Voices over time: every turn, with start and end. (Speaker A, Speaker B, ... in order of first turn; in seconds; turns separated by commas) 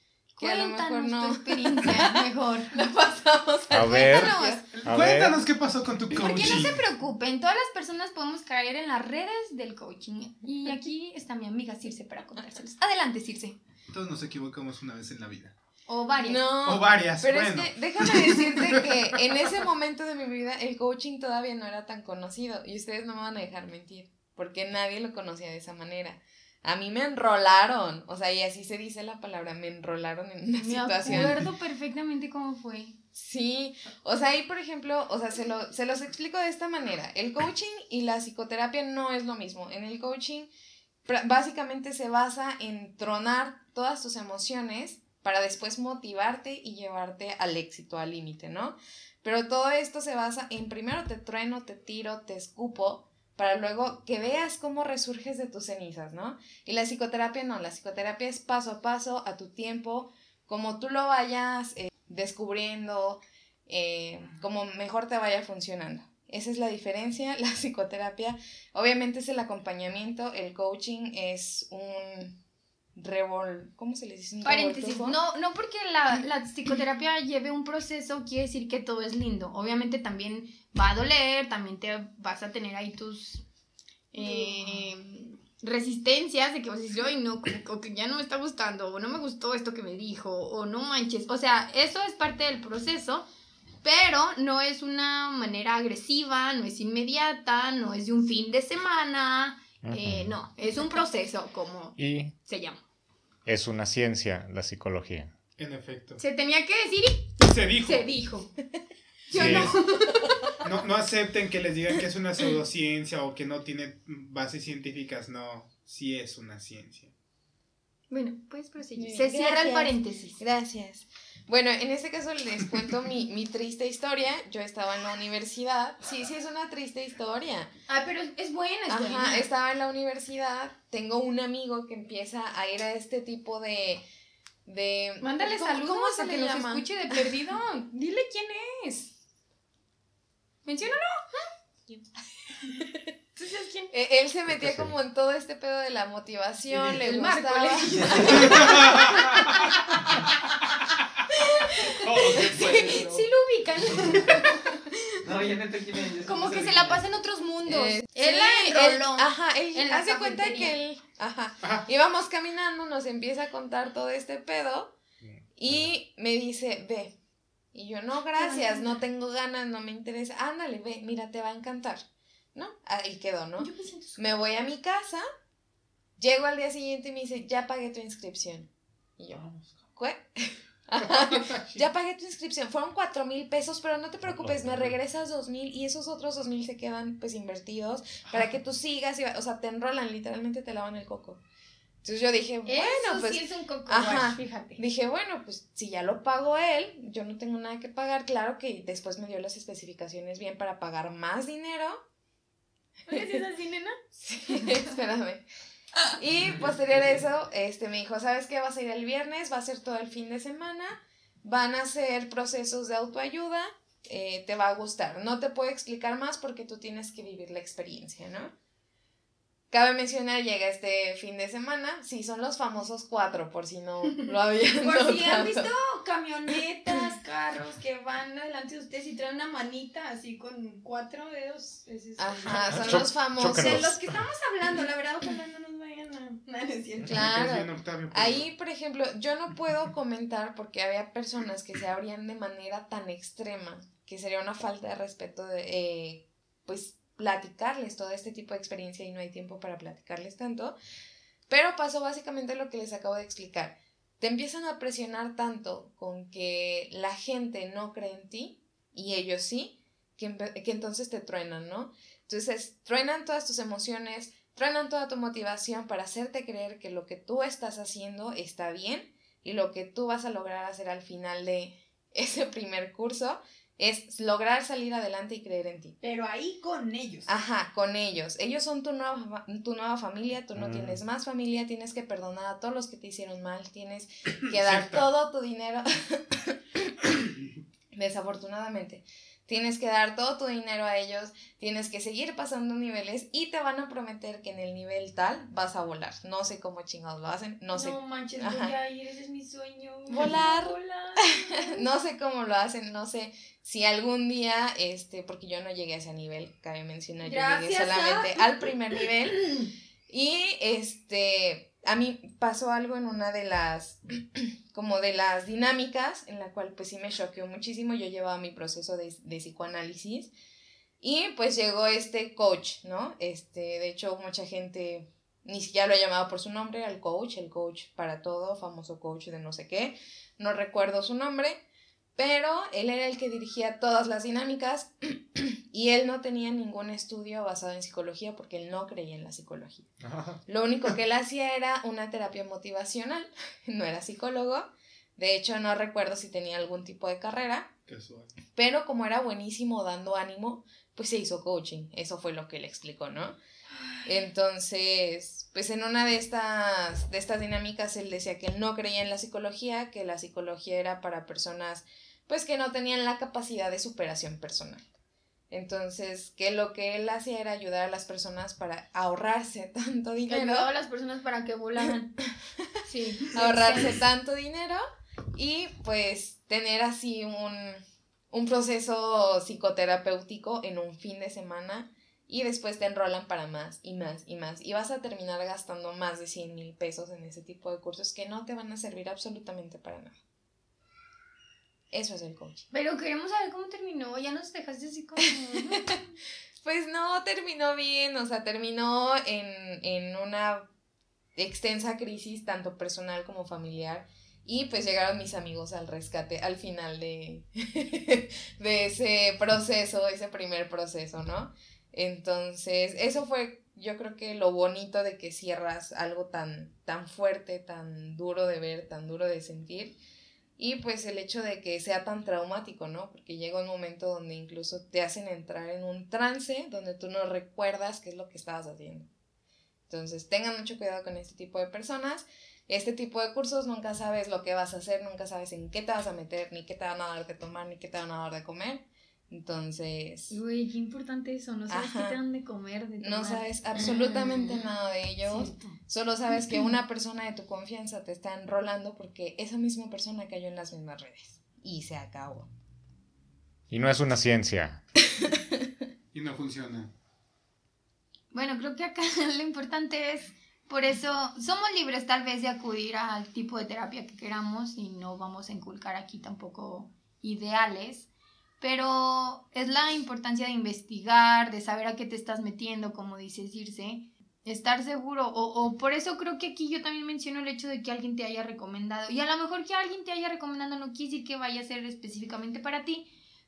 Speaker A: 0.4-2.7, Speaker B: 0.4-4.7, Speaker C: 3.7-5.4, Speaker A: 3.9-4.6, Speaker D: 4.7-6.8, Speaker A: 6.1-13.6, Speaker D: 13.9-15.6, Speaker A: 15.9-16.5, Speaker B: 16.2-31.5, Speaker D: 16.6-18.9, Speaker A: 30.6-33.0, Speaker B: 33.1-40.5, Speaker B: 41.1-72.4, Speaker B: 73.0-75.2, Speaker A: 74.4-83.4, Speaker A: 84.1-93.3, Speaker B: 84.2-84.6, Speaker A: 93.8-102.8, Speaker C: 99.8-100.4, Speaker C: 102.0-102.3, Speaker C: 103.5-105.3, Speaker D: 105.6-106.2, Speaker A: 106.2-108.5, Speaker D: 107.4-108.1, Speaker A: 109.3-110.3, Speaker D: 109.3-109.8, Speaker C: 109.3-109.7, Speaker D: 110.6-117.1, Speaker A: 118.1-120.4, Speaker B: 119.0-127.7, Speaker A: 127.9-129.5, Speaker B: 128.9-134.0, Speaker B: 134.7-137.3, Speaker A: 135.2-139.1, Speaker A: 140.7-141.1, Speaker A: 143.4-143.9, Speaker B: 143.9-148.9, Speaker C: 144.6-144.9, Speaker A: 146.8-150.5, Speaker D: 148.4-149.4, Speaker A: 151.3-154.9, Speaker D: 152.1-153.0, Speaker E: 152.1-153.1, Speaker E: 155.2-157.0, Speaker A: 156.2-160.8, Speaker B: 157.7-165.0, Speaker B: 165.6-167.2, Speaker B: 167.7-172.0, Speaker A: 168.4-169.0, Speaker B: 172.6-175.2, Speaker A: 173.6-174.3, Speaker B: 176.2-179.4, Speaker D: 179.3-179.8, Speaker B: 179.9-191.4, Speaker D: 181.2-181.8, Speaker C: 184.4-184.9, Speaker B: 192.0-202.0, Speaker A: 192.7-194.8, Speaker A: 203.1-204.0, Speaker B: 203.1-203.4, Speaker B: 204.2-205.4, Speaker B: 206.1-218.5, Speaker B: 219.7-225.7, Speaker A: 224.8-237.3, Speaker B: 232.2-233.9, Speaker C: 232.7-234.0, Speaker B: 237.1-250.8, Speaker D: 237.1-238.5, Speaker B: 251.5-276.0, Speaker A: 276.0-277.3, Speaker B: 277.3-287.2, Speaker C: 280.6-281.0, Speaker D: 284.6-285.1, Speaker B: 287.9-298.8, Speaker A: 297.7-301.8, Speaker B: 300.1-320.3, Speaker A: 307.2-308.5, Speaker B: 321.0-331.6, Speaker B: 332.1-339.9, Speaker C: 340.0-340.4, Speaker B: 340.5-347.7, Speaker D: 347.9-348.3, Speaker B: 348.6-353.4, Speaker B: 354.0-364.9, Speaker B: 365.5-370.7, Speaker A: 370.3-372.1, Speaker B: 372.2-372.8, Speaker A: 372.9-374.0, Speaker B: 373.3-374.8, Speaker B: 375.4-390.1, Speaker B: 391.9-392.6, Speaker A: 392.7-396.1, Speaker B: 396.6-400.7, Speaker B: 401.4-420.0, Speaker B: 420.6-429.1, Speaker B: 429.9-440.4, Speaker A: 440.3-444.6, Speaker B: 441.7-442.2, Speaker B: 443.0-452.5, Speaker A: 445.2-445.8, Speaker A: 446.4-446.7, Speaker C: 453.7-454.8, Speaker D: 456.1-456.9, Speaker A: 458.3-468.1, Speaker A: 468.6-483.1